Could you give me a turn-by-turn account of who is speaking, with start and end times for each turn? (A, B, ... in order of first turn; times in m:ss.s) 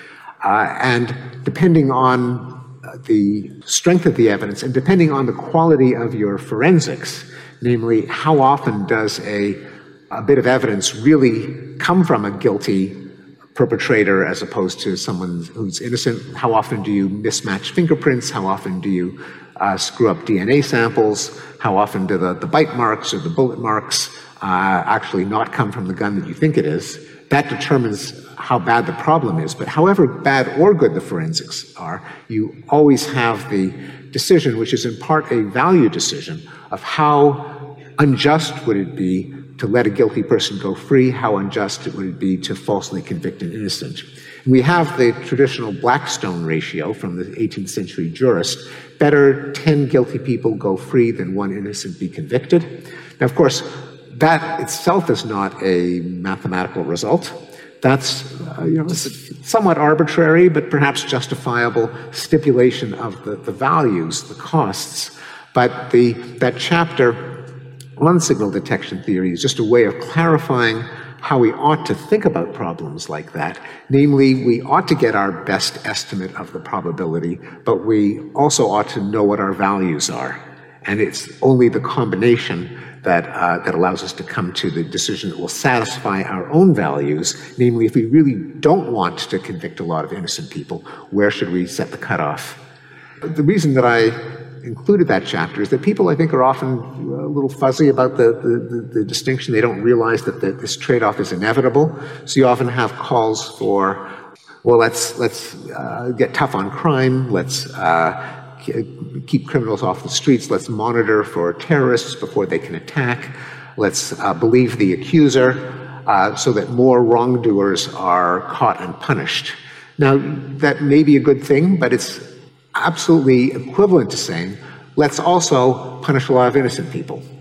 0:00.4-1:07.4 A
1:08.0-1:32.6 A
1:33.2-1:44.1 A
1:44.6-2:07.2 A